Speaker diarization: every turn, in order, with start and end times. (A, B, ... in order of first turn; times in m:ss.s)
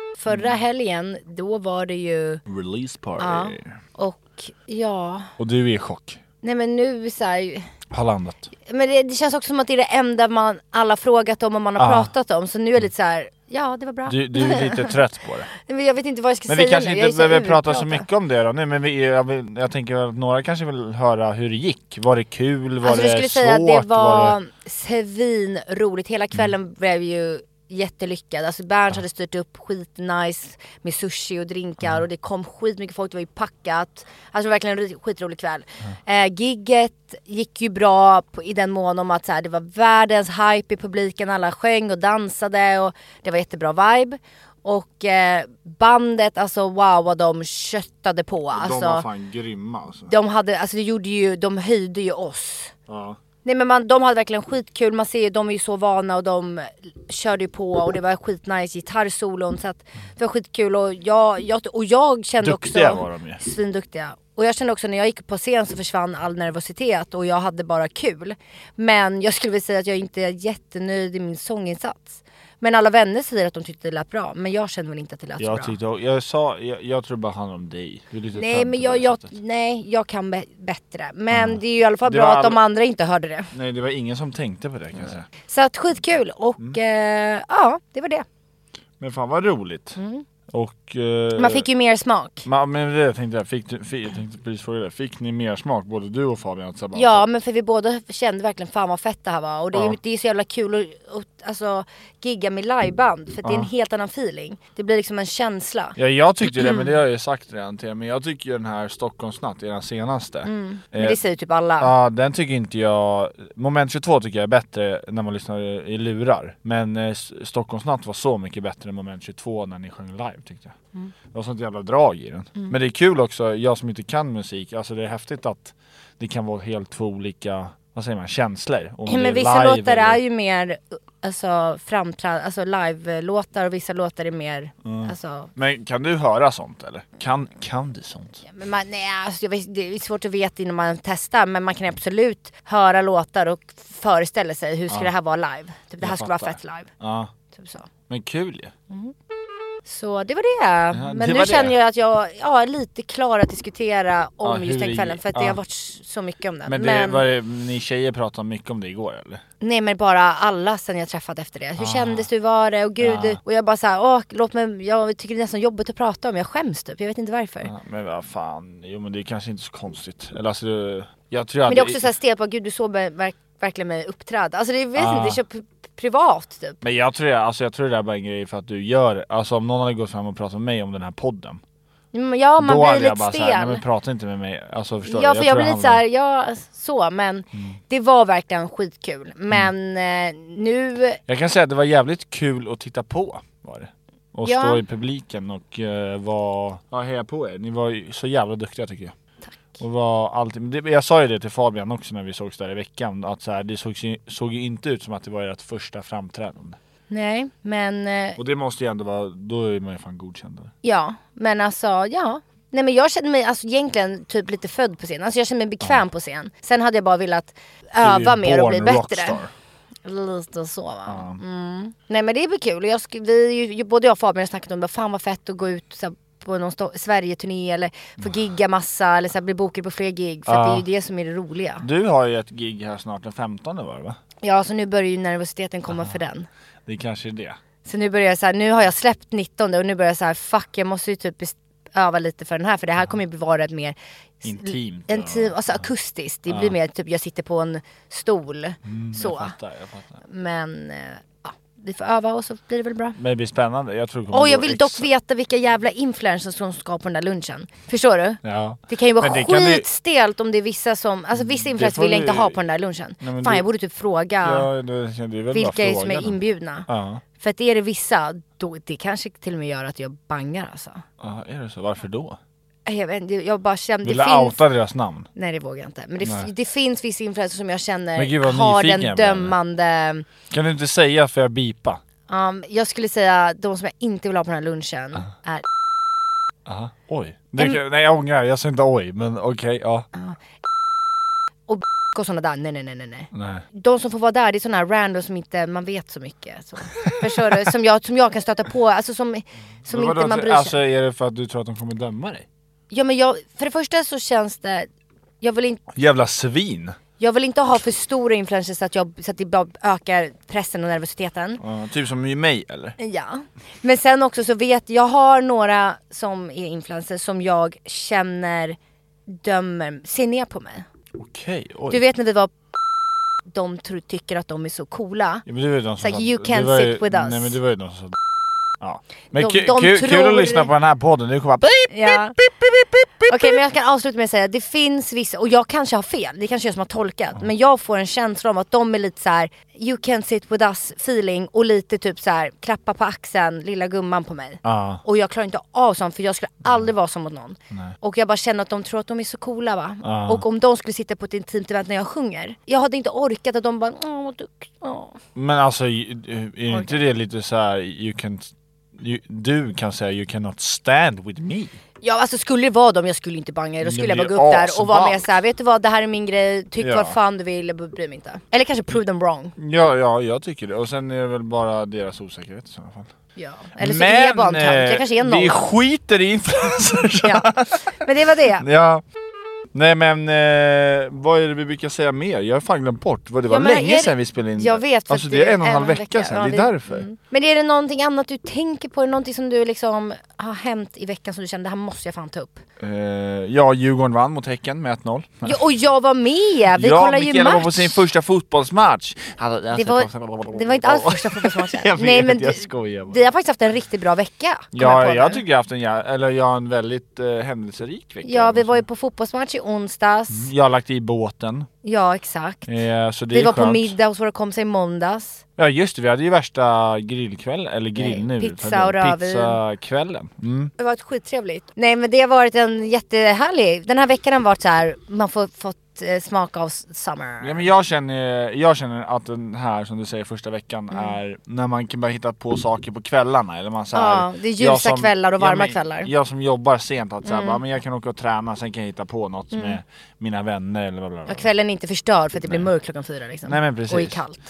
0:00.2-0:02.4 A
0:02.4-0:03.8 B
0:03.2-0:05.3 A
0:05.4-0:06.2 B
0:06.4-0:07.7 A
0:07.9-0:08.5 B
0:08.7-0:15.0 A
0:11.8-0:12.1 B
0:14.0-0:15.5 B
0:15.5-0:18.0 A
0:16.5-0:24.4 B
0:22.8-0:49.0 A
0:48.5-0:50.1 B
0:50.1-0:52.7 A
0:52.9-0:53.2 B
0:53.4-1:15.8 A
1:02.4-1:03.4 B
1:15.4-1:19.3 B
1:18.3-1:23.5 A
1:21.3-1:22.6 B
1:23.5-1:25.3 B
1:25.5-1:28.2 A
1:29.0-1:30.0 B
1:30.0-1:30.2 A
1:30.5-1:31.7 B
1:31.4-1:32.4 A
1:32.4-1:37.2 B
1:36.9-1:46.0 A
1:39.7-1:40.0 B
1:43.4-1:43.7 B
1:46.0-1:51.2 B
1:46.5-1:46.9 A
1:50.4-1:51.9 A
1:51.8-2:00.8 B
2:01.3-2:10.2 B
2:09.0-2:15.5 A
2:14.8-2:18.4 B
2:18.4-2:26.9 A
2:26.0-2:27.3 B
2:27.5-2:27.9 A
2:28.1-2:28.7 B
2:29.8-2:37.2 A
2:30.9-2:31.7 B
2:34.4-2:35.6 B
2:36.6-2:39.4 B
2:39.6-2:47.7 A
2:41.8-2:42.3 B
2:43.0-2:43.4 B
2:47.6-2:52.1 B
2:51.7-2:56.8 A
2:55.0-2:55.4 B
2:56.8-3:01.6 B
3:02.1-3:03.8 A
3:02.6-3:06.0 B
3:05.0-3:11.2 A
3:07.5-3:07.8 B
3:11.3-3:19.1 B
3:14.4-3:14.8 A
3:19.8-3:26.8 B
3:27.1-3:28.4 A
3:28.4-3:30.7 B
3:30.8-3:39.4 A
3:38.0-3:39.5 B
3:40.0-3:51.8 A
3:41.1-3:41.4 B
3:50.5-3:50.8 B
3:51.8-3:54.2 B
3:54.4-3:56.5 A
3:55.9-3:56.2 B
3:56.8-3:57.6 B
3:57.8-4:09.5 A
4:04.4-4:05.8 B
4:06.5-4:06.7 B
4:08.8-4:10.2 B
4:10.2-4:13.2 A
4:13.2-4:15.1 B
4:14.3-4:24.7 A
4:18.4-4:19.9 B
4:21.3-4:22.6 B
4:23.2-4:23.6 B
4:24.4-4:27.2 B
4:25.5-4:26.9 A
4:27.4-4:31.0 A
4:31.2-4:32.4 B
4:32.8-4:34.6 A
4:34.0-4:35.3 B
4:35.3-4:40.3 A
4:36.2-4:36.5 B
4:38.2-4:39.5 B
4:40.5-4:42.0 B
4:42.3-4:45.6 A
4:46.6-4:50.1 B
4:50.1-4:50.4 A
4:51.7-5:00.8 A
4:53.3-4:53.6 B
4:57.0-4:57.5 B
4:59.8-5:02.5 B
5:02.9-5:04.9 A
5:05.4-5:05.8 A
5:05.9-5:07.0 B
5:07.2-5:11.6 A
5:11.6-5:13.0 B
5:13.0-5:20.8 A
5:21.2-5:22.0 B
5:21.9-5:22.5 A
5:23.5-5:25.4 A
5:25.4-5:28.2 B
5:26.0-5:27.6 A
5:28.8-5:33.6 B
5:29.3-5:30.7 A
5:31.9-5:32.4 A
5:33.3-5:55.2 A
5:44.6-5:45.0 B
5:50.0-5:50.4 B
5:55.3-6:01.8 B
5:56.7-5:57.0 A
6:02.0-6:09.6 A
6:03.8-6:05.3 B
6:06.8-6:07.2 B
6:09.6-6:13.1 B
6:13.4-6:15.6 A
6:13.7-6:18.0 B
6:17.2-6:18.6 A
6:18.6-6:19.0 B
6:19.7-6:27.1 B
6:23.5-6:32.6 A
6:32.8-6:35.6 B
6:35.4-6:38.0 A
6:36.7-6:43.2 B
6:39.7-6:45.4 A
6:44.7-6:48.8 B
6:48.2-6:50.5 A
6:50.3-6:51.7 B
6:51.8-6:52.8 A
6:52.6-6:53.9 B
6:53.3-6:55.4 A
6:55.6-7:00.7 B
6:58.0-6:59.6 A
7:00.8-7:07.6 A
7:07.4-7:21.5 B
7:13.9-7:16.1 A
7:17.2-7:17.6 A
7:19.5-7:19.8 A
7:21.3-7:24.4 A
7:22.4-7:22.7 B
7:23.4-7:24.2 B